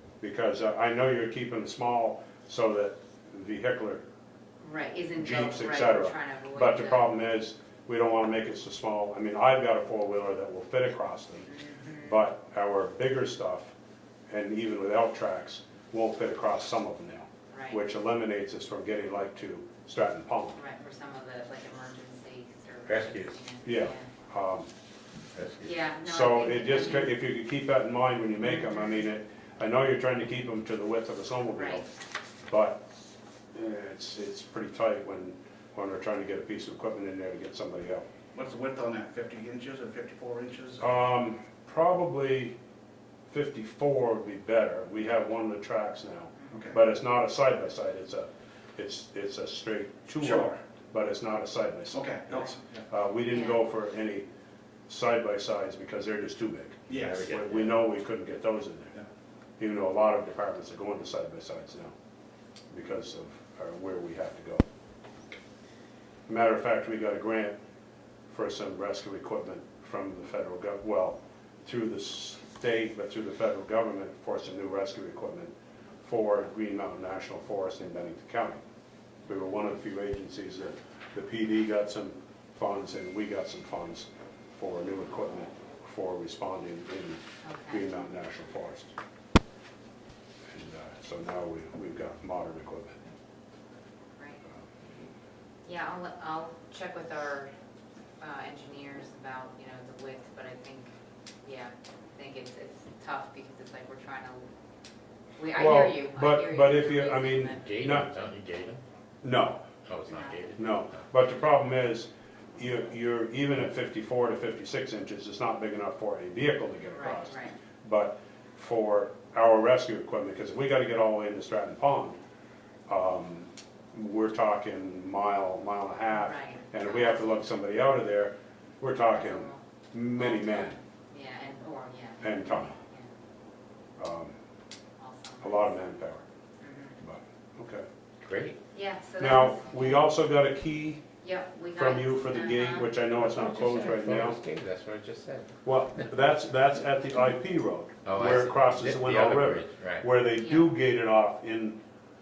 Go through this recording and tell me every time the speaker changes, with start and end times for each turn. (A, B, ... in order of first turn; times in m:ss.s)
0:00.2-0:04.0 A
0:04.6-0:07.1 B
0:05.2-0:11.5 A
0:11.5-0:12.2 B
0:12.1-0:13.7 A
0:14.3-0:20.6 A
0:17.5-0:17.8 B
0:20.6-0:24.1 B
0:22.9-0:23.3 C
0:23.6-0:24.7 A
0:25.4-0:25.7 C
0:25.6-0:27.1 B
0:26.0-0:31.9 A
0:28.4-0:29.0 B
0:31.5-0:31.9 B
0:32.5-0:32.8 A
0:33.5-0:38.1 A
0:38.3-0:40.8 D
0:40.8-0:42.6 A
0:43.3-0:54.3 A
0:46.5-0:46.8 D
0:50.2-0:50.6 D
0:51.9-0:52.8 D
0:53.3-0:53.6 B
0:54.9-0:59.0 A
0:56.9-0:57.4 D
0:57.0-0:57.8 C
0:59.6-1:01.9 A
1:02.7-1:04.6 A
1:06.3-1:07.6 A
1:08.3-1:18.6 A
1:19.3-1:28.9 A
1:27.4-1:27.8 B
1:30.5-1:33.0 A
1:34.2-1:34.4 B
1:35.6-1:37.5 B
1:38.2-1:40.9 B
1:41.4-1:44.5 B
1:45.4-1:47.6 B
1:45.6-1:48.1 A
1:47.6-1:48.8 C
1:49.2-1:49.6 A
1:49.9-1:51.0 C
1:50.1-1:50.5 B
1:50.6-2:02.2 A
1:56.9-1:57.6 B
2:02.9-2:10.8 A
2:06.1-2:07.4 B
2:09.1-2:09.6 B
2:10.2-2:13.1 B
2:12.2-2:12.8 A
2:14.0-2:14.3 A
2:15.0-2:15.8 B
2:15.4-2:16.2 A
2:16.6-2:17.0 B
2:17.0-2:17.9 A
2:18.2-2:18.6 C
2:18.7-2:20.1 B
2:19.2-2:21.0 A
2:21.2-2:22.9 B
2:21.7-2:24.4 A
2:23.2-2:25.6 C
2:25.6-2:31.8 A
2:28.1-2:30.1 C
2:30.4-2:30.7 B